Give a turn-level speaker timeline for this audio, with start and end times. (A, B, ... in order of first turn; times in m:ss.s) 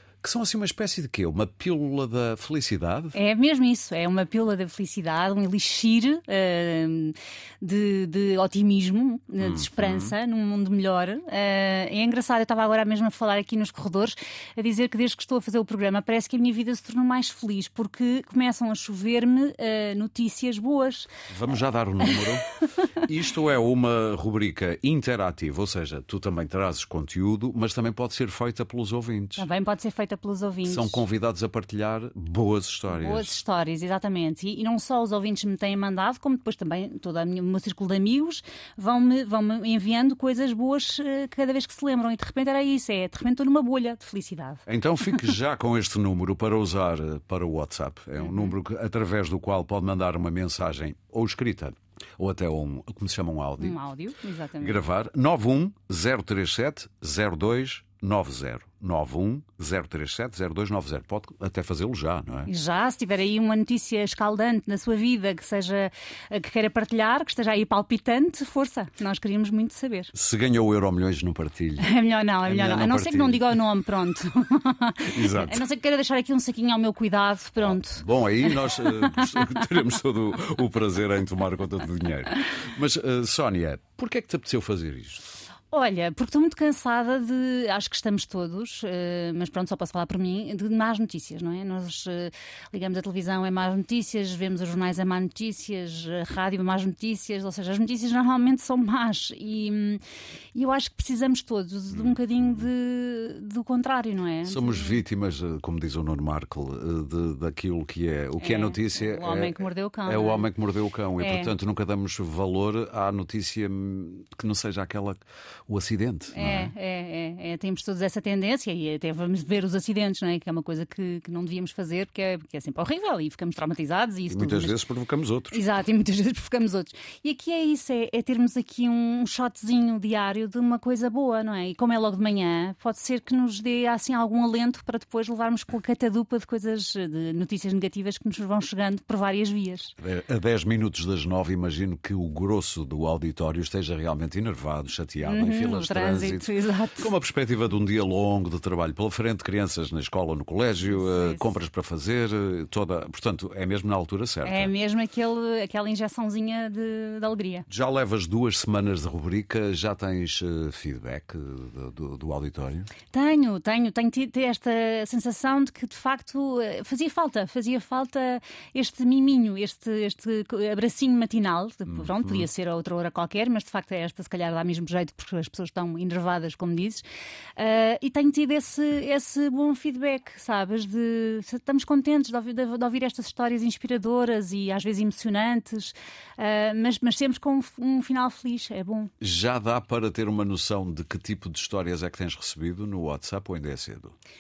0:00.2-0:03.2 A
0:03.1-0:21.1 B
0:09.4-0:10.1 A
0:21.3-0:29.5 A
0:29.4-0:31.0 B
0:30.6-0:33.4 A
0:32.9-0:44.6 B
0:44.7-0:53.8 A
0:48.2-0:48.6 B
0:53.6-0:54.8 B
0:54.6-1:02.5 A
1:02.5-1:10.1 B
1:10.1-1:11.9 A
1:11.8-1:19.2 B
1:12.5-1:13.5 A
1:15.1-1:15.6 A
1:17.6-1:25.2 A
1:25.7-1:40.0 B
1:40.5-1:45.0 B
1:44.5-1:49.5 A
1:48.4-1:50.5 B
1:50.1-1:56.7 A
1:51.2-1:51.5 B
1:56.3-2:04.8 B
2:04.3-2:05.6 A
2:05.5-2:20.0 B
2:20.0-2:34.7 A
2:25.2-2:27.1 B
2:30.8-2:31.5 B
2:34.4-2:37.7 B
2:37.7-2:42.9 A
2:43.1-2:57.0 B
2:51.9-2:52.5 A
2:57.6-3:09.1 B
3:09.2-3:14.2 A